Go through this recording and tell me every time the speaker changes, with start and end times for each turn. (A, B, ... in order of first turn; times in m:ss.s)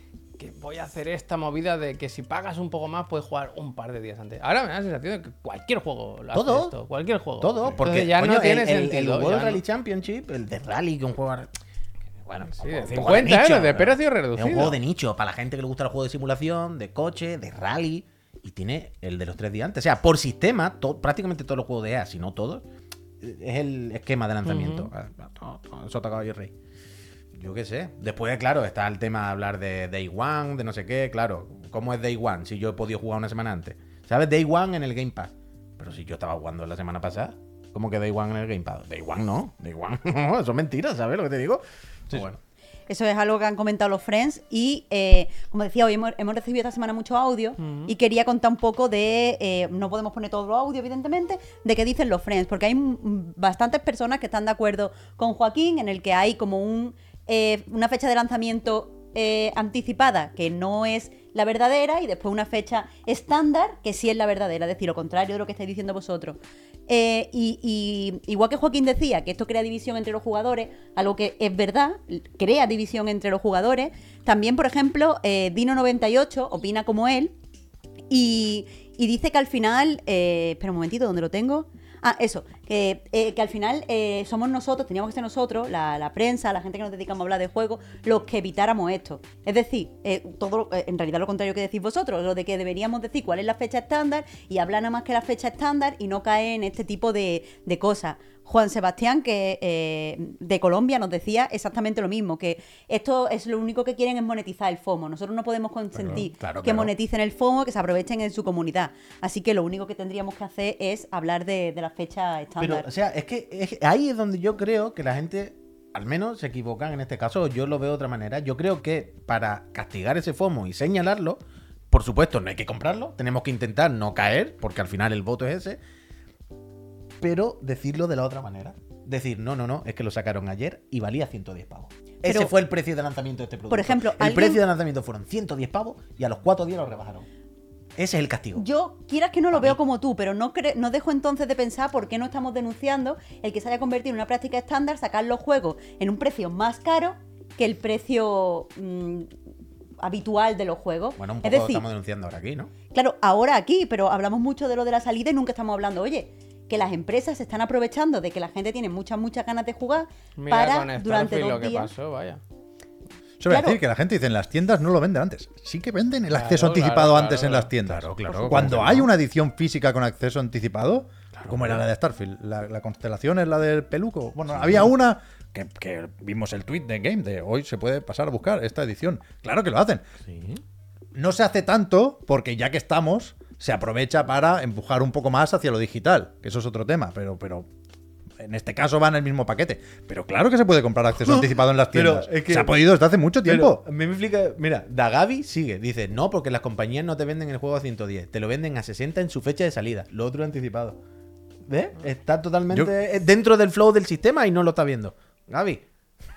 0:00.4-0:09.6 A
0:06.3-0:06.7 B
0:07.4-0:11.5 B
0:12.2-0:22.6 B
0:12.5-0:14.7 A
0:23.2-0:26.5 B
0:24.4-0:24.9 A
0:27.3-0:42.4 B
0:42.9-1:17.3 C
0:47.6-0:47.9 A
1:18.1-1:52.9 C
1:46.0-1:46.9 B
1:52.6-2:01.4 B
2:01.9-2:05.8 B
2:07.2-2:17.2 B
2:13.7-2:14.6 C
2:18.0-2:18.6 B
2:18.5-2:29.3 C
2:19.5-2:19.8 B
2:30.0-2:31.8 C
2:31.2-2:32.7 B
2:32.9-2:41.9 C
2:40.4-2:42.4 A
2:43.4-3:00.1 D
2:43.5-2:43.8 C
2:46.3-2:47.7 A
2:47.8-2:49.1 B
2:48.3-2:48.6 C
2:51.3-2:51.8 B
2:54.5-2:54.9 B
3:00.3-3:00.6 B
3:01.1-3:07.7 D
3:08.4-3:13.8 D
3:11.2-3:12.8 B
3:13.4-3:21.0 B
3:21.7-3:25.8 B